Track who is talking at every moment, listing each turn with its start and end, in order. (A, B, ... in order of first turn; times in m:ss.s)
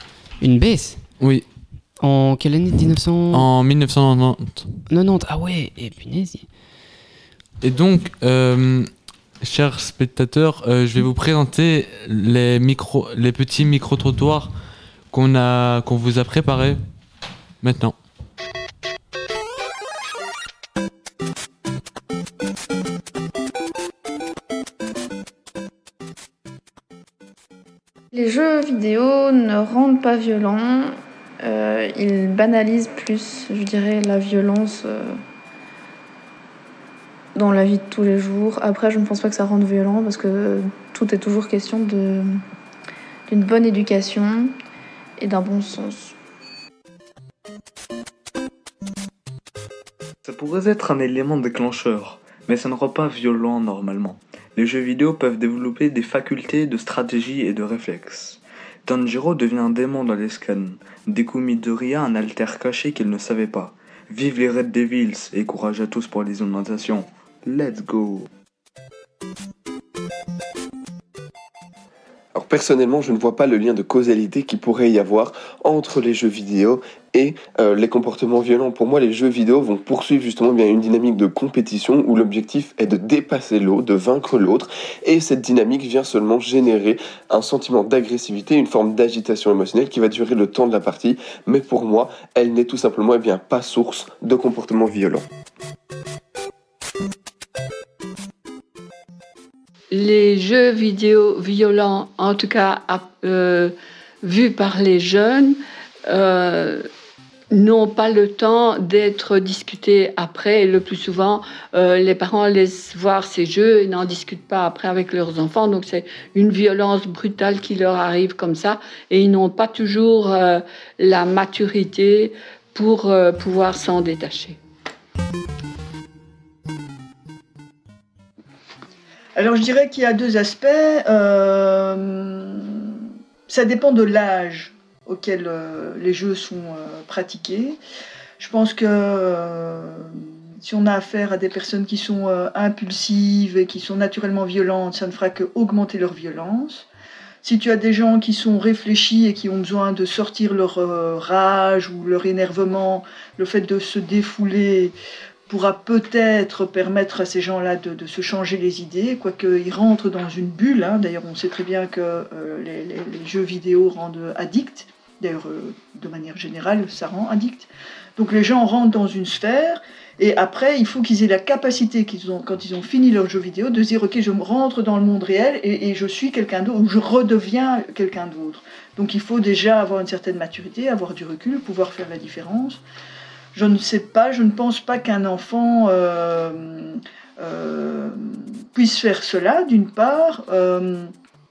0:00.4-0:01.0 A
0:01.2-0:01.4 B
0:02.0-0:03.5 A
0:03.3-0:04.7 B
0:04.9-0:06.5 A
0:07.6-0:08.9 B
0:09.4-0:14.5 B
0:15.1-0:16.8 B
0:17.6-0:18.0 B
0:28.1-0:35.2 C
0:37.4-0:42.4 C
0:43.3-0:44.6 C
0:45.2-0:46.2 C
0:50.2-1:08.3 D
1:12.3-1:35.3 E
1:39.9-1:46.9 F
1:47.5-2:04.6 F
2:09.4-2:17.8 G
2:18.4-2:26.9 G
2:27.4-2:35.0 G
2:35.5-3:02.8 G
3:03.5-3:11.1 G